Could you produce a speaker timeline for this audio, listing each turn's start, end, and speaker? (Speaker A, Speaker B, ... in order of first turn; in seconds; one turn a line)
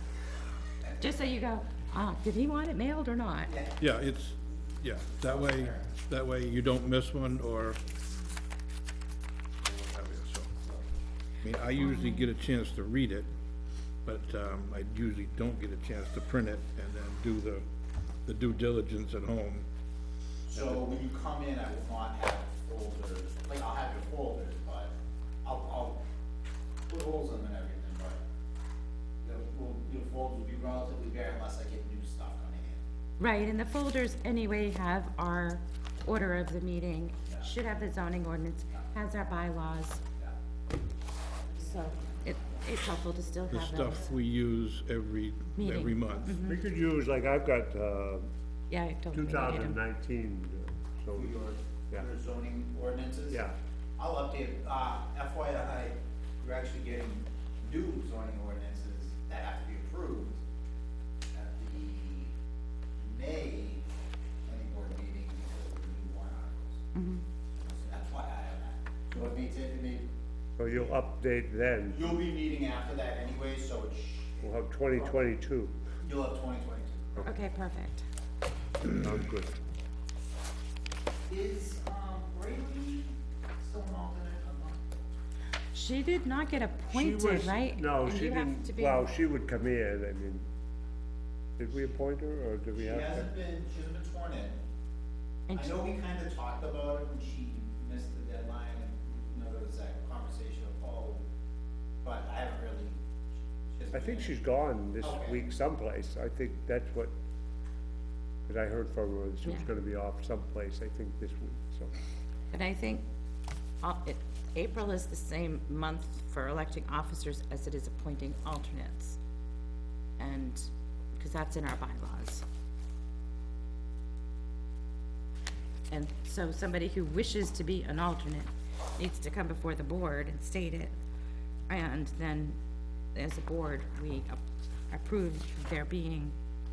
Speaker A: 1.0-3.5
Speaker B: 3.5-3.9
Speaker C: 3.8-7.8
Speaker B: 5.1-5.9
Speaker C: 9.6-10.5
Speaker C: 11.4-13.3
Speaker A: 11.8-12.3
Speaker C: 14.0-17.6
Speaker C: 18.2-19.6
Speaker B: 20.5-24.9
Speaker B: 25.4-26.0
Speaker B: 26.9-28.2
Speaker B: 29.2-32.8
Speaker A: 33.2-40.0
Speaker B: 37.2-37.5
Speaker A: 41.6-44.0
Speaker C: 43.5-46.4
Speaker A: 45.6-46.6
Speaker D: 46.4-48.3
Speaker A: 48.7-49.8
Speaker D: 49.1-51.4
Speaker B: 51.1-53.4
Speaker D: 53.3-53.5
Speaker B: 54.0-60.4
Speaker B: 61.3-62.3
Speaker B: 63.0-63.9
Speaker B: 64.4-66.8
Speaker A: 66.9-67.2
Speaker B: 67.5-70.1
Speaker D: 70.6-72.2
Speaker B: 70.7-70.9
Speaker B: 71.9-75.3
Speaker D: 74.4-75.7
Speaker B: 76.0-77.3
Speaker A: 77.2-78.0
Speaker D: 78.9-79.5
Speaker B: 81.3-84.8
Speaker A: 85.7-89.1
Speaker D: 86.9-90.5
Speaker D: 91.6-93.3
Speaker B: 92.8-94.6
Speaker A: 95.5-95.8
Speaker B: 95.5-101.2
Speaker B: 102.0-103.0
Speaker B: 103.5-104.3
Speaker D: 103.9-107.1
Speaker B: 105.0-105.4
Speaker D: 108.5-111.9
Speaker A: 112.5-113.0
Speaker A: 113.8-119.2
Speaker A: 120.2-122.4
Speaker A: 125.9-130.9
Speaker A: 131.7-132.6
Speaker A: 133.1-134.4
Speaker A: 134.9-136.3